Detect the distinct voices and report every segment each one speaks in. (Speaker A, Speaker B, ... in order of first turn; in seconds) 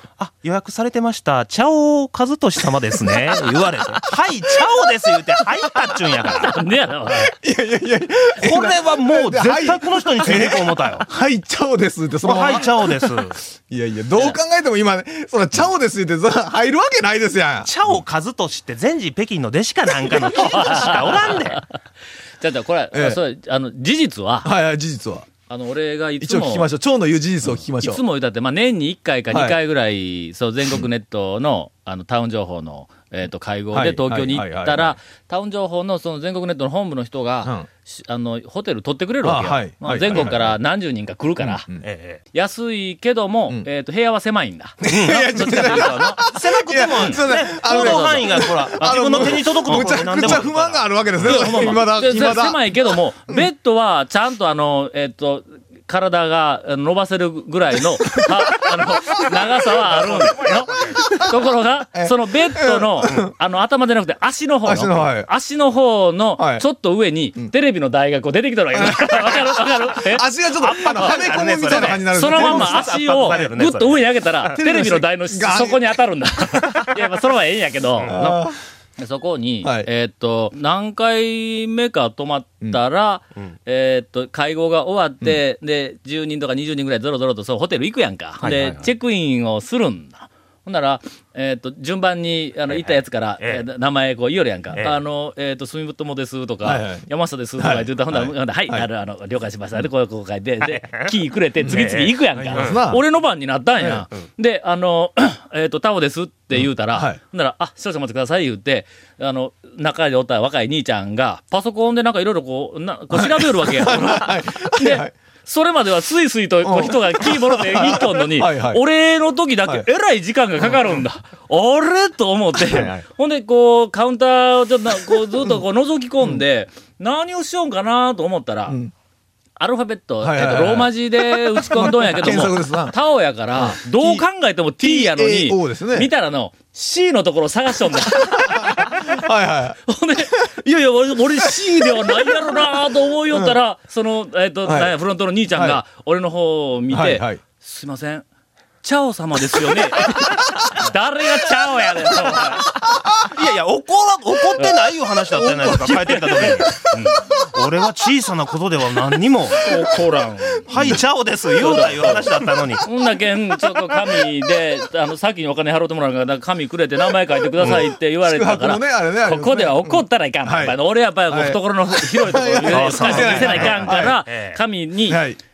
Speaker A: 0.2-6.6, 8.4-11.1, 12.2-13.4, 17.6-21.6, 41.8-42.2, 44.8-51.5, 70.7-74.2, 78.0-78.5, 88.4-88.9, 92.7-93.7, 94.7-95.0, 100.6-101.1, 101.7-102.8, 153.3-156.9, 157.4-159.6, 160.7-162.8, 172.6-174.6
Speaker B: 6.4-7.3, 20.5-21.3, 22.4-24.5, 25.5-26.7, 27.4-41.7, 42.3-46.2, 47.0-50.5, 51.2-70.2, 70.8-78.2, 79.0-128.8, 129.6-139.2, 139.9-148.3, 148.8-152.7, 155.4-157.3, 159.5-160.9, 161.6-175.3
Speaker C: 7.3-12.7, 13.6-17.8, 22.9-23.2, 24.4-25.3, 26.2-28.0, 29.3-29.6, 33.7-35.0, 39.2-40.6, 41.4-41.8, 44.8-53.5, 60.9-61.3, 61.9-63.3, 64.7-65.3, 66.4-66.7, 68.7-73.3, 74.5-75.9, 78.1-78.6, 79.6-79.9, 96.6-98.9, 101.6-103.1, 103.8-104.1, 106.6-107.2, 113.1-115.1, 116.6-118.8, 130.2-133.0, 133.5-134.3, 134.8-136.1, 138.2-140.5, 143.3-143.6, 144.7-145.0, 145.5-145.8, 146.9-147.4, 167.6-174.2, 175.1-175.4